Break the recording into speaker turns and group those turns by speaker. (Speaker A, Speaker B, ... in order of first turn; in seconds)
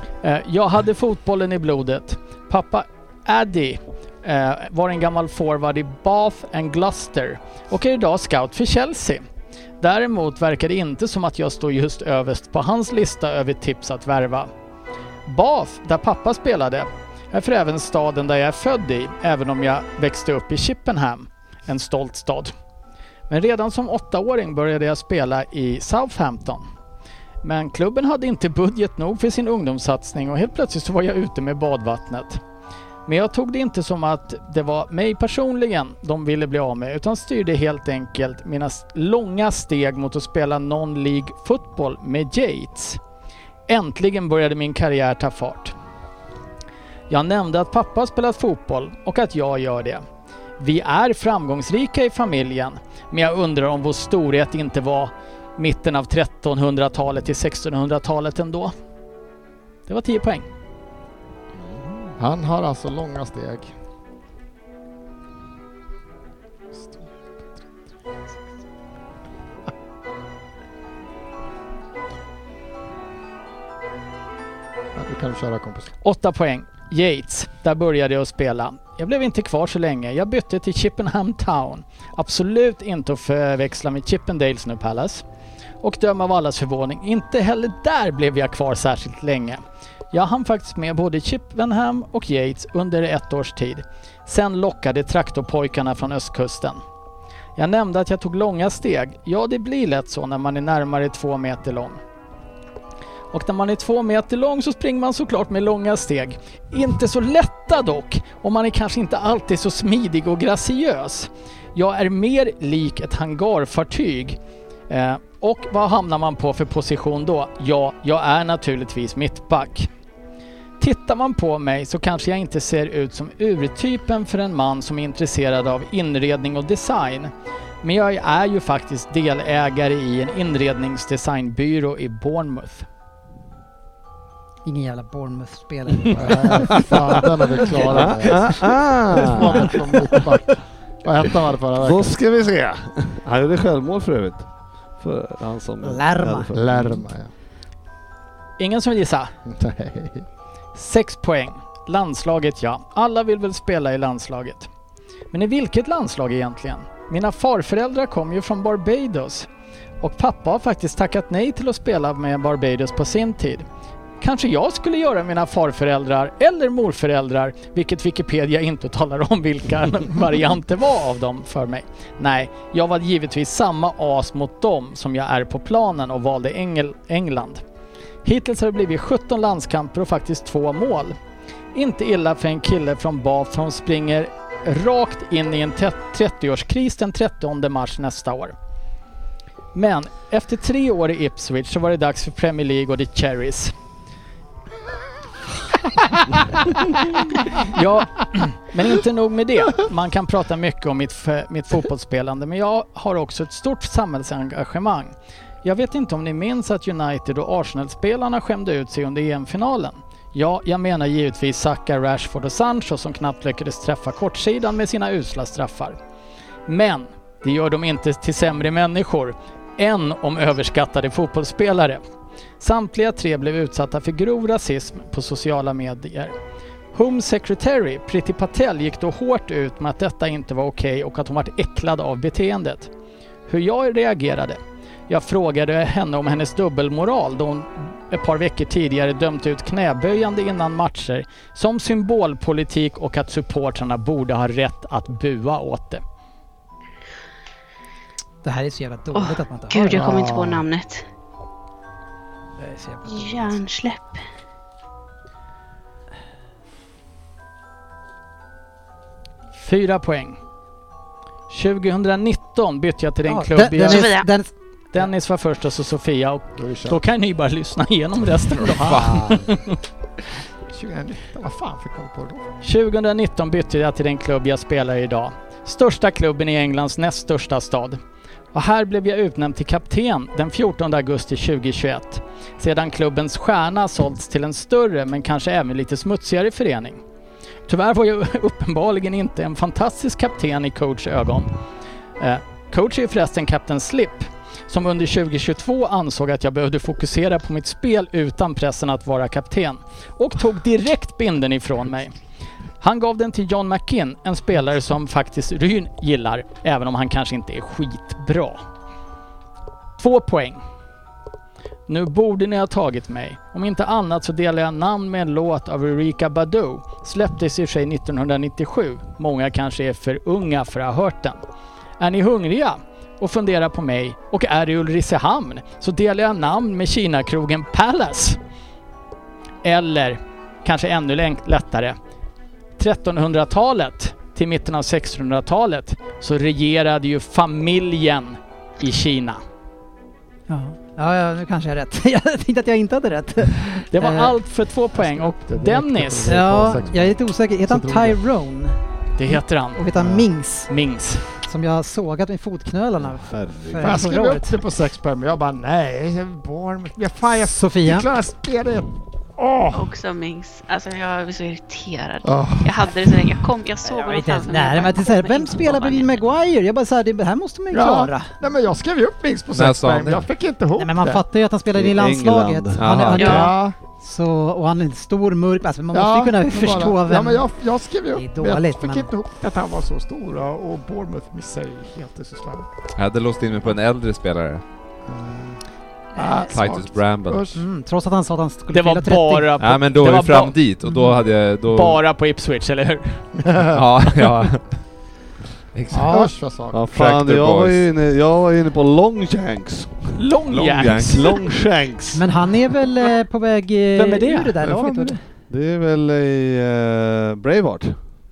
Speaker A: 0.2-9.2, 9.8-14.5, 15.3-22.5, 23.3-26.6, 27.4-32.4, 33.0-43.0, 43.7-45.7, 47.1-50.0, 50.6-58.7, 59.9-60.5, 76.0-85.2, 85.8-89.6, 90.1-96.8, 97.6-102.0, 103.3-114.4, 114.9-119.9, 120.8-127.3, 127.8-132.8, 148.6-149.3, 150.7-154.7, 155.3-159.5, 160.0-163.6, 164.2-177.6, 178.2-181.2, 181.7-188.5, 189.7-193.7, 197.5-205.1, 205.6-216.0, 216.7-222.0, 222.6-226.3, 226.9-232.9, 233.5-246.0, 259.6-260.4, 261.5-264.1, 264.9-269.8, 272.6-278.0, 278.5-287.0, 287.7-291.5, 292.2-302.1, 302.8-308.6, 310.0-310.6, 311.9-321.4, 322.0-328.4, 329.6-331.9, 332.8-339.4, 343.9-346.4, 349.2-349.8, 350.7-351.2, 388.7-390.6, 391.7-393.2, 400.2-401.4, 403.9-404.5
Speaker B: 62.2-63.7, 75.0-75.9, 136.1-142.1, 146.5-147.3, 149.5-150.2, 249.9-250.6, 266.6-267.0, 268.7-269.5, 270.7-272.5, 344.9-348.2, 353.8-359.9, 362.2-363.5, 367.7-371.2, 373.1-373.8, 375.9-382.7, 385.1-385.6, 386.1-387.6, 393.4-394.3, 396.0-396.8
Speaker C: 134.6-138.4, 139.3-139.8, 145.8-146.5, 248.4-250.3, 252.6-253.6, 263.2-264.5, 340.5-344.4, 346.3-348.8, 349.7-350.7, 351.4-354.6, 357.4-358.0, 364.0-368.4, 370.8-377.5, 378.1-379.1, 387.6-389.5, 390.8-391.1, 395.9-396.3, 402.1-405.2
Speaker D: 136.1-137.2, 137.8-140.2, 141.8-147.0, 350.0-350.2, 353.0-354.0, 371.7-373.3, 396.7-400.2, 400.8-402.3, 405.5-408.0
Speaker E: 249.1-251.0, 253.1-254.2, 263.9-264.3, 359.7-366.1, 373.1-373.5
Speaker F: 369.5-370.3, 372.8-373.2, 382.9-384.6, 386.5-387.4, 389.6-392.0, 393.7-394.8, 395.7-396.1, 396.9-397.8, 400.5-401.3, 404.6-405.1